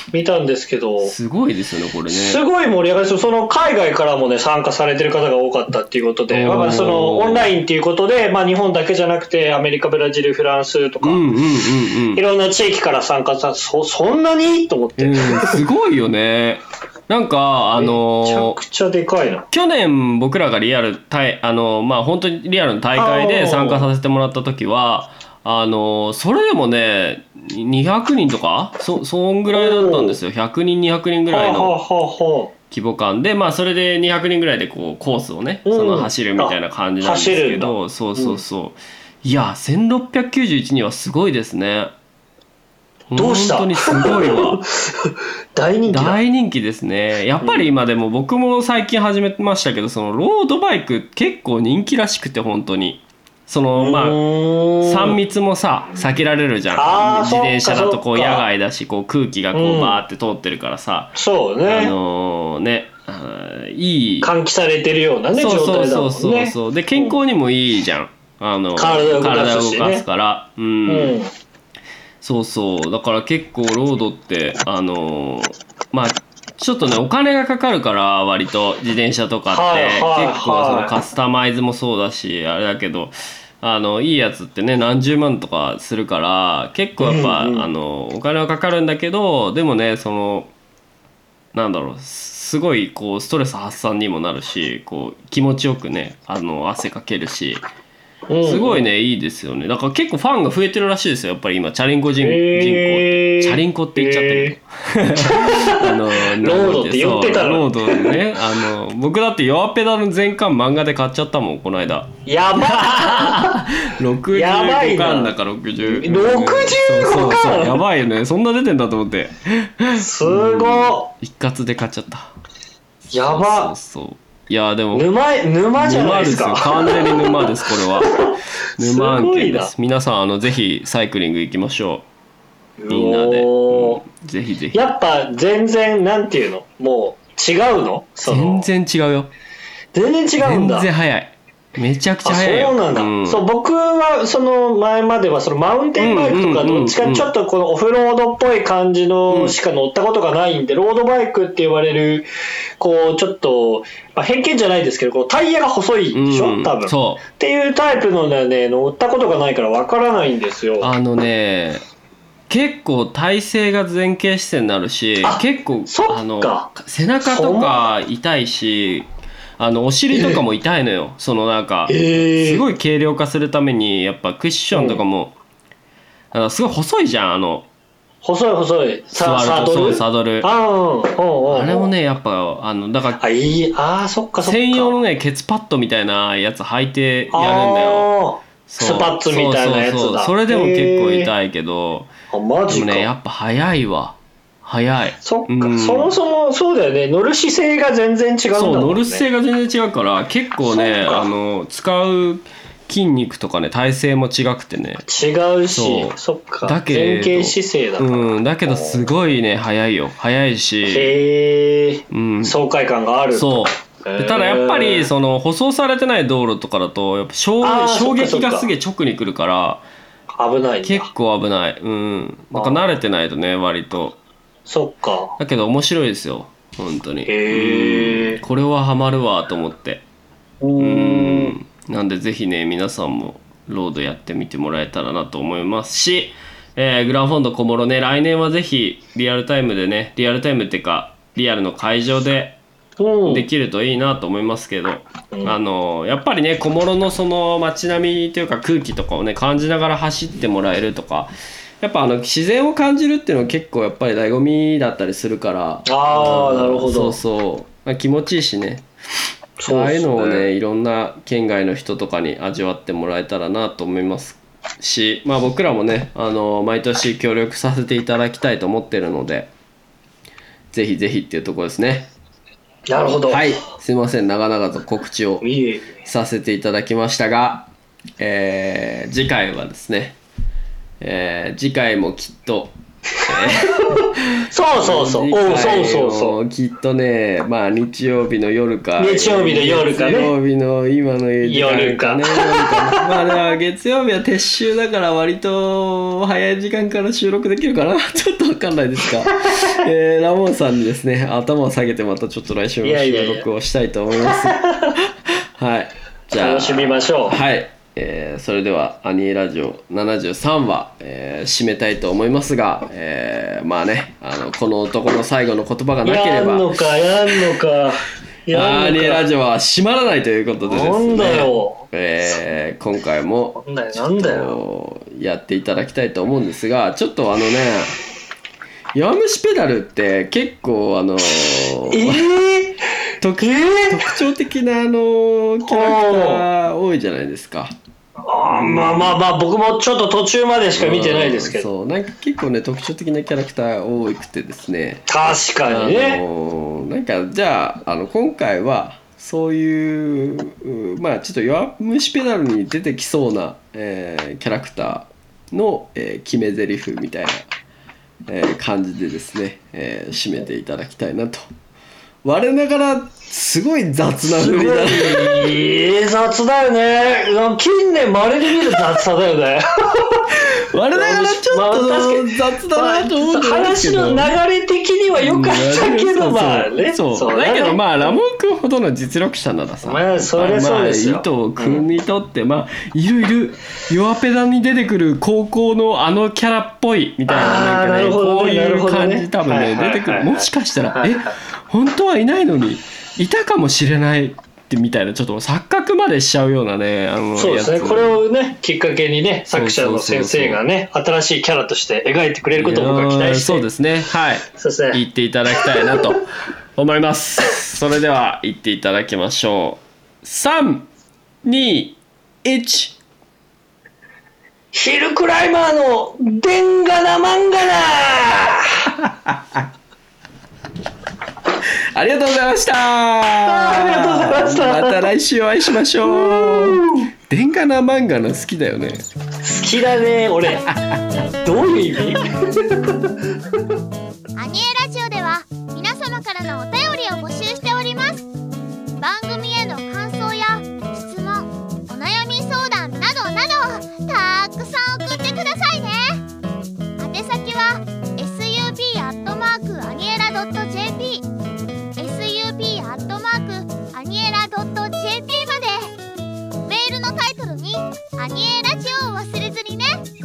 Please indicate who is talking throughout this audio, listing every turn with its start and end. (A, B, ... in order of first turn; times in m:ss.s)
0:00.1-0:01.1 A
0:01.0-0:02.4 B
0:02.1-0:11.3 A
0:06.3-0:07.5 B
0:11.0-0:12.2 B
0:12.1-0:15.6 A
0:15.0-0:18.6 B
0:17.8-0:19.5 A
0:19.5-0:31.7 B
0:23.0-0:23.9 A
0:29.5-0:30.2 A
0:31.3-0:32.5 A
0:32.7-0:41.9 B
0:35.7-0:38.4 A
0:43.1-0:44.6 B
0:43.2-0:46.2 A
0:45.9-0:54.2 B
0:53.8-0:55.2 A
0:54.8-1:04.3 B
0:56.8-0:58.5 A
0:59.5-1:00.0 A
1:01.2-1:02.0 A
1:04.2-1:07.1 A
1:05.3-1:11.2 B
1:08.8-1:10.0 A
1:10.9-1:11.3 A
1:12.2-1:30.5 B
1:19.5-1:21.0 A
1:27.0-1:27.7 A
1:31.5-1:37.6 B
1:38.3-1:38.9 A
1:38.4-2:02.3 B
1:42.2-1:44.6 A
1:45.2-1:48.2 A
1:52.3-1:53.7 A
1:54.3-1:57.8 A
2:00.0-2:01.1 A
2:03.1-2:03.7 A
2:03.2-2:05.1 B
2:04.9-2:09.7 A
2:05.8-2:08.2 B
2:08.8-2:12.0 B
2:12.8-2:14.0 A
2:12.9-2:14.9 B
2:14.7-2:18.7 A
2:18.3-2:19.3 B
2:19.9-2:20.9 A
2:20.4-2:23.4 B
2:22.2-2:32.3 A
2:26.0-2:27.3 B
2:29.3-2:29.6 B
2:32.8-2:40.9 A
2:36.1-2:37.2 B
2:40.8-2:41.8 B
2:42.5-2:55.4 B
2:45.2-2:47.8 A
2:50.1-2:50.4 A
2:51.9-2:52.6 A
2:54.7-2:55.0 A
2:56.3-2:57.7 B
2:58.2-3:01.9 A
2:59.2-3:00.5 B
3:01.5-3:03.2 B
3:03.2-3:05.0 A
3:04.4-3:08.1 B
3:07.3-3:11.3 A
3:08.7-3:12.1 B
3:12.3-3:13.1 A
3:12.7-3:16.2 B
3:15.2-3:19.2 A
3:18.5-3:25.0 B
3:20.7-3:21.3 A
3:25.1-3:29.1 A
3:25.7-3:31.1 B
3:30.8-3:35.1 A
3:32.1-3:32.6 B
3:33.3-3:39.8 B
3:37.6-3:38.7 A
3:40.3-3:41.1 A
3:40.8-3:44.2 B
3:42.5-3:42.8 A
3:44.7-3:45.4 A
3:45.4-3:50.0 B
3:47.3-3:48.4 A
3:50.6-3:51.6 A
3:50.8-4:02.6 B
4:03.0-4:03.5 A
4:03.3-4:18.9 B
4:05.3-4:05.6 A
4:15.9-4:17.2 A
4:19.6-4:20.5 A
4:19.7-4:29.5 B
4:30.7-4:32.1 B
4:32.9-4:33.6 A
4:33.3-4:35.5 B
4:35.4-4:36.0 A
4:36.0-4:40.2 B
4:41.0-4:42.7 B
4:43.2-4:46.4 A
4:43.3-5:16.7 B
4:49.0-4:50.3 A
4:51.4-4:53.4 A
5:02.8-5:03.5 A
5:04.4-5:05.0 A
5:06.3-5:07.4 A
5:16.0-5:19.2 A
5:18.5-5:27.9 B
5:20.7-5:21.9 A
5:23.6-5:24.6 A
5:29.0-5:32.2 B
5:31.9-5:32.8 A
5:33.2-5:37.7 B
5:33.4-5:34.2 A
5:35.6-5:36.4 A
5:38.3-5:41.7 A
5:38.5-5:39.2 B
5:40.8-5:45.1 B
5:45.1-5:46.2 A
5:45.7-5:57.5 B
5:58.3-6:01.5 B
6:02.2-6:05.7 B
6:04.2-6:10.3 A
6:10.5-6:14.3 B
6:10.9-6:18.2 A
6:15.2-6:38.2 B
6:19.8-6:21.8 A
6:27.3-6:31.4 A
6:37.4-6:43.7 A
6:39.5-6:40.6 B
6:42.6-6:46.2 B
6:44.5-6:45.0 A
6:46.8-6:50.9 B
6:51.4-6:53.0 B
6:54.7-6:58.9 A
6:59.0-6:59.7 B
7:01.6-7:09.0 B
7:03.5-7:05.1 A
7:06.1-7:07.1 A
7:09.4-7:10.7 A
7:11.4-7:13.3 A
7:14.4-7:18.3 C
7:19.0-7:26.2 C
7:27.0-7:31.3 C
7:32.0-7:36.0 C
7:36.6-7:40.1 C